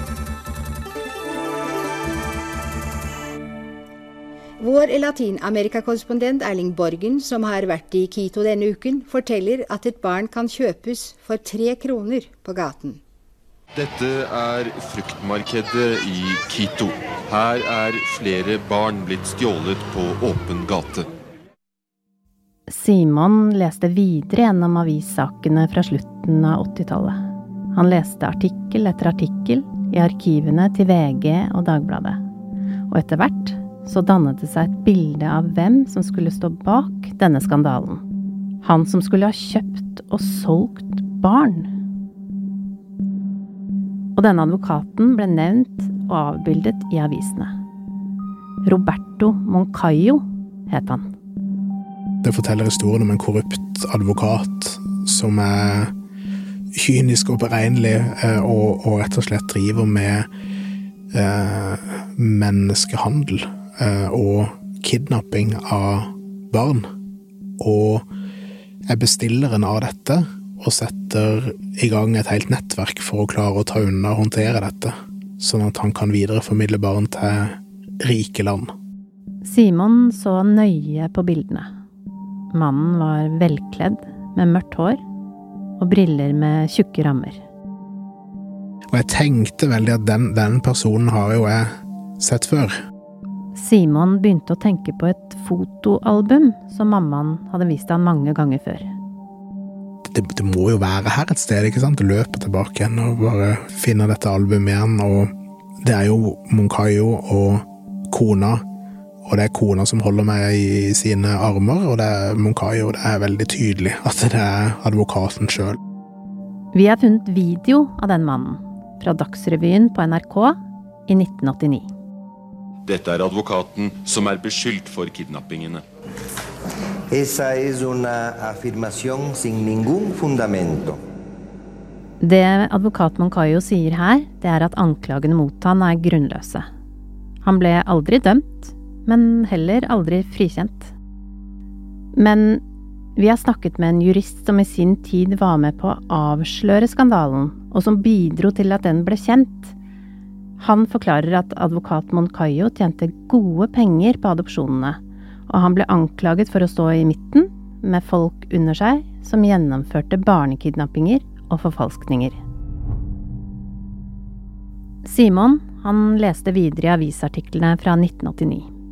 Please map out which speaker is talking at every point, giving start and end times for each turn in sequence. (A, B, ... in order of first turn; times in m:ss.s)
0:04.6-0:13.0 A
0:13.7-0:21.0 B
0:22.7-0:27.2 C
0:27.7-0:32.2 C
0:32.9-0:38.0 C
0:38.6-0:41.7 C
0:44.2-0:47.5 C
0:48.6-0:51.1 C
0:52.2-0:55.9 D
0:56.7-1:00.3 D
1:01.1-1:06.9 D
1:07.6-1:08.0 D
1:08.9-1:18.7 D
1:19.4-1:21.7 C
1:22.5-1:25.0 C
1:25.8-1:27.4 C
1:28.9-1:32.8 D
1:33.6-1:38.9 C
1:40.0-1:48.6 D
1:49.2-1:55.8 D
1:56.7-2:01.9 C
2:02.8-2:05.8 B
2:07.1-2:11.0 E
2:12.2-2:16.7 C
2:17.4-2:20.9 C
2:22.1-2:22.6 C
2:23.2-2:29.7 C
2:30.6-2:42.4 C
2:45.0-2:48.7 C